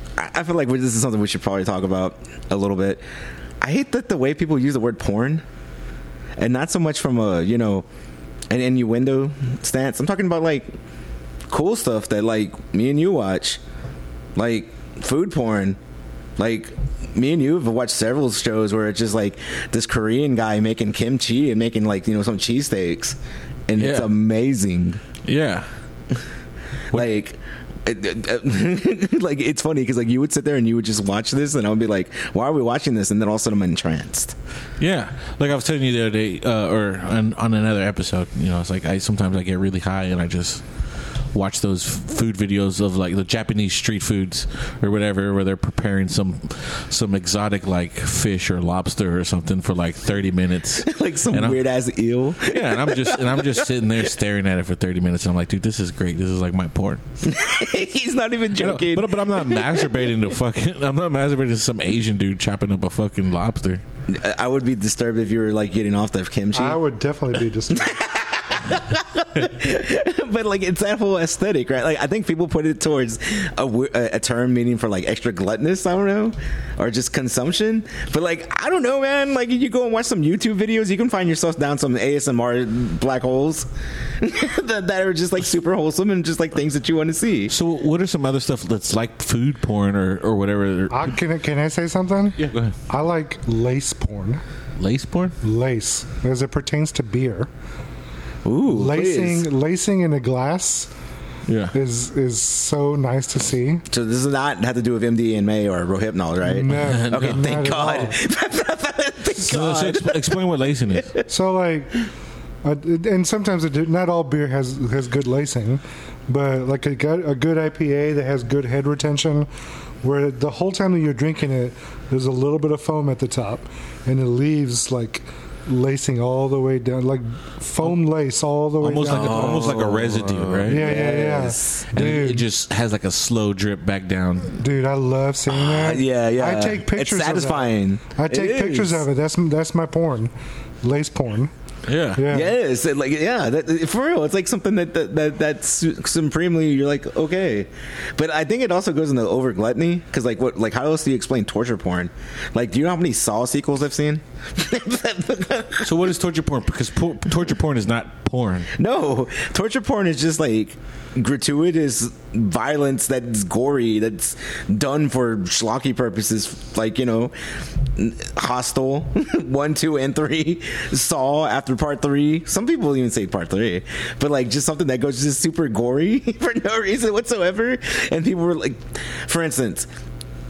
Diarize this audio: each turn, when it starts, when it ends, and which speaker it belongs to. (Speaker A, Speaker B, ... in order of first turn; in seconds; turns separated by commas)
Speaker A: 0.2-3.0, Speaker A: 3.6-5.4, Speaker A: 6.4-7.9, Speaker A: 8.5-10.7, Speaker A: 11.5-13.6, Speaker A: 14.3-15.8, Speaker A: 16.4-25.0, Speaker B: 23.8-24.1, Speaker B: 25.2-25.7, Speaker A: 26.9-34.4, Speaker B: 34.8-40.6, Speaker B: 41.3-51.6, Speaker A: 50.8-53.7, Speaker B: 52.4-57.0, Speaker A: 57.2-59.9, Speaker B: 58.6-63.8, Speaker A: 64.1-66.8, Speaker C: 66.5-68.0, Speaker A: 67.7-83.7, Speaker A: 84.2-87.5, Speaker B: 87.5-91.1, Speaker C: 90.9-92.4, Speaker B: 92.4-92.7, Speaker C: 92.9-94.4, Speaker B: 94.8-95.3, Speaker C: 95.4-97.5, Speaker A: 98.5-99.5, Speaker C: 98.7-100.9, Speaker B: 101.5-101.7, Speaker C: 101.7-103.8, Speaker A: 103.9-111.3, Speaker C: 106.4-108.2, Speaker B: 106.7-107.6, Speaker B: 109.4-111.1, Speaker C: 111.3-111.9, Speaker C: 112.6-119.5, Speaker C: 120.0-129.8, Speaker B: 128.8-130.9, Speaker A: 129.1-131.9, Speaker C: 130.7-132.4, Speaker B: 131.9-134.6, Speaker C: 134.6-140.3, Speaker A: 135.5-139.1, Speaker C: 140.8-141.5, Speaker B: 141.9-142.3, Speaker C: 142.2-142.5, Speaker A: 142.3-155.9, Speaker B: 155.8-158.7, Speaker A: 158.8-167.3, Speaker A: 168.0-179.9